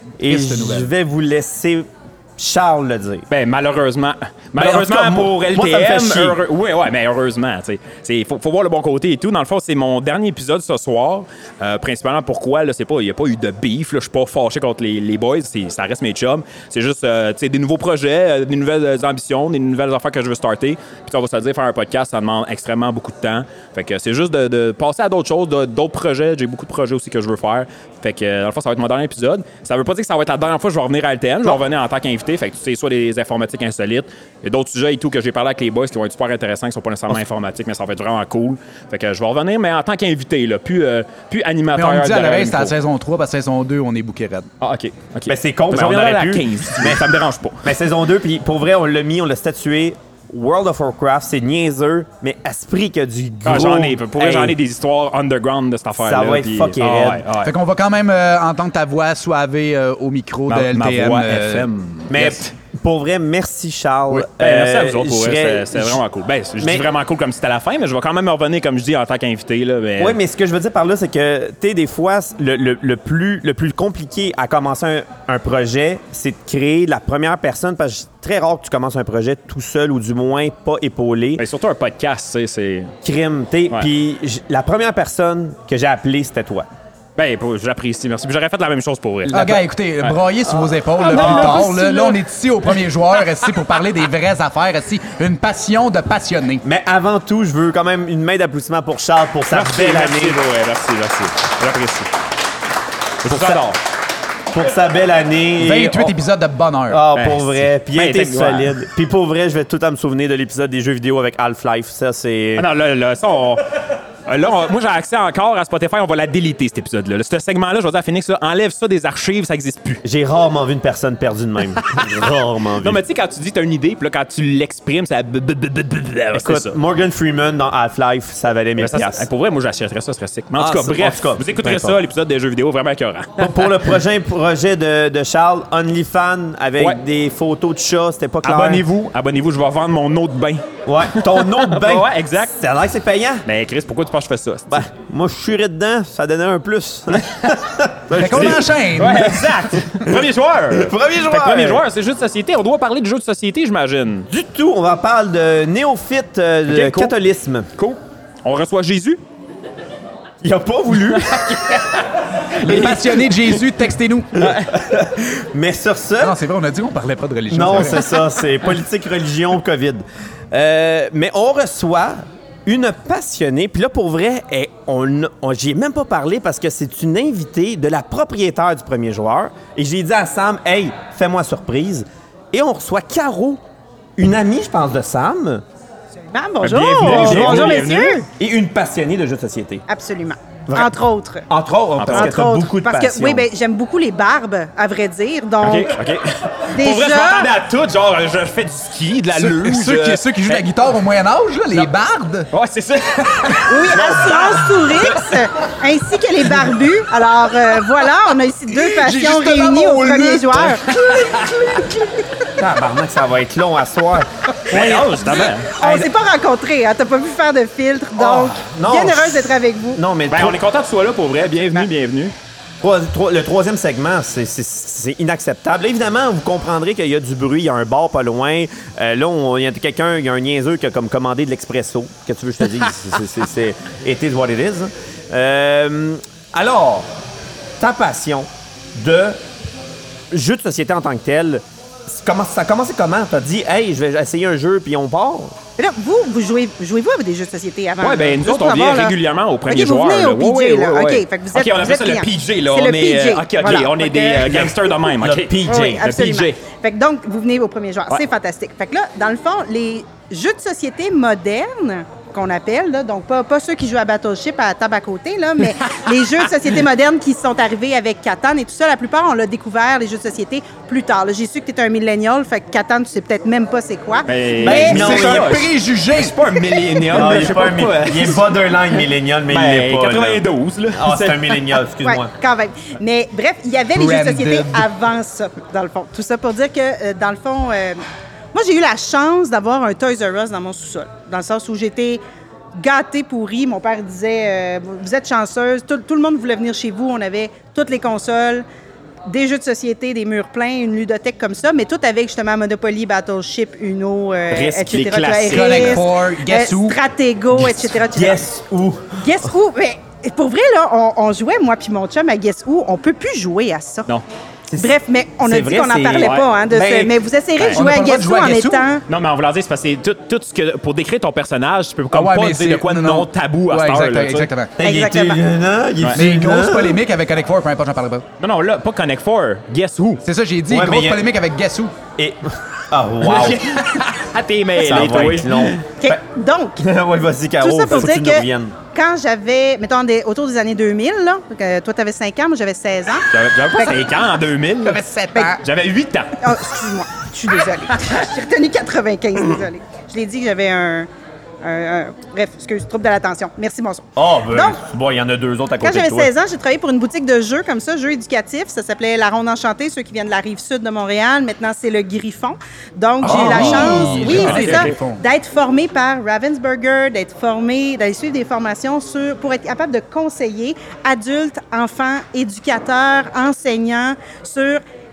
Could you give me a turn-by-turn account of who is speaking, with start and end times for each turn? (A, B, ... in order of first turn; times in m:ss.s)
0:00.2-0:03.2 A
0:00.2-0:00.9 B
0:03.3-0:42.7 C
0:04.6-0:06.4 A
0:41.8-0:44.5 B
0:44.6-0:47.7 C
0:45.3-0:54.6 A
0:53.4-0:57.5 C
0:56.0-0:57.2 A
0:57.4-1:01.7 B
1:00.5-1:02.5 C
1:02.1-1:06.0 A
1:04.4-1:10.2 C
1:06.6-1:06.9 A
1:10.0-1:21.4 A
1:21.4-1:22.9 C
1:23.0-1:26.6 A
1:27.2-1:30.1 C
1:29.3-1:36.6 B
1:31.0-1:32.1 C
1:31.0-1:32.1 D
1:36.6-1:40.4 A
1:39.5-1:42.1 C
1:43.2-1:43.8 C
1:43.2-1:43.7 A
1:44.5-1:46.1 A
1:45.6-1:47.0 B
1:46.9-1:52.6 A
1:47.2-1:48.7 C
1:52.6-1:53.7 C
1:54.2-2:00.0 C
2:00.0-2:03.0 A
2:02.8-2:06.8 C
2:06.3-2:09.3 A
2:08.8-2:13.6 C
2:10.5-2:12.0 A
2:13.4-2:18.8 A
2:18.4-2:22.6 C
2:20.8-2:23.4 A
2:23.4-2:24.8 C
2:24.7-2:31.8 A
2:27.1-2:27.5 C
2:28.1-2:29.4 B
2:28.1-2:34.3 C
2:34.3-2:37.7 A
2:36.7-2:37.1 C
2:37.8-2:39.2 C
2:40.4-2:41.4 A
2:41.0-2:43.6 C
2:42.6-2:44.3 B
2:44.3-2:44.7 C
2:44.4-2:46.4 A
2:46.2-2:48.1 B
2:47.5-3:03.6 A
3:04.2-3:05.6 A
3:06.3-3:08.3 D
3:06.6-3:07.8 A
3:06.8-3:08.2 C
3:08.4-3:09.8 A
3:09.9-3:11.4 D
3:10.7-3:10.9 A
3:11.5-3:13.4 A
3:12.0-3:12.4 C
3:12.1-3:15.9 D
3:15.6-3:20.6 C
3:16.7-3:17.5 D
3:19.3-3:22.5 B
3:22.5-3:25.4 C
3:23.6-3:30.9 D
3:28.7-3:31.3 B
3:30.9-3:31.9 C
3:32.5-3:35.2 A
3:34.6-3:35.7 C
3:34.8-3:40.0 D
3:35.8-3:36.1 A
3:38.2-3:40.6 A
3:40.3-3:42.3 C
3:42.8-3:57.1 A
3:57.8-3:59.4 A
4:00.3-4:05.5 A
4:05.8-4:14.7 D
4:08.0-4:16.6 C
4:14.5-4:16.0 A
4:15.7-4:35.0 D
4:34.3-4:38.4 C
4:34.6-4:35.6 A
4:34.7-4:36.4 B
4:37.1-4:42.3 A
4:39.5-4:41.6 C
4:42.0-4:48.0 D
4:43.9-4:44.8 B
4:48.5-4:52.2 D
4:52.8-4:58.6 D
4:59.2-5:08.4 D
5:04.5-5:06.1 C
5:05.5-5:07.0 B
5:08.1-5:09.4 A
5:09.2-5:14.1 D
5:14.7-5:17.2 A
5:14.8-5:19.0 D
5:16.1-5:16.5 C
5:17.7-5:18.8 B
5:19.1-5:24.5 C
5:22.1-5:24.7 B
5:24.8-5:27.0 A
5:24.8-5:25.4 D
5:26.2-5:28.2 B
5:28.4-5:30.2 C
5:30.2-5:31.9 B
5:30.7-5:31.3 A
5:32.2-5:33.8 A
5:33.2-5:35.8 C
5:34.8-5:36.2 A
5:36.0-5:36.8 D
5:36.8-5:38.8 A
5:37.6-5:44.1 D
5:43.3-5:45.0 C
5:44.8-5:45.6 B
5:45.6-5:46.4 C
5:46.4-5:51.1 D
5:51.6-5:54.8 D
5:54.2-5:56.3 A
5:55.8-6:14.8 D
6:03.2-6:05.2 B
6:03.2-6:04.4 A
6:03.3-6:04.9 C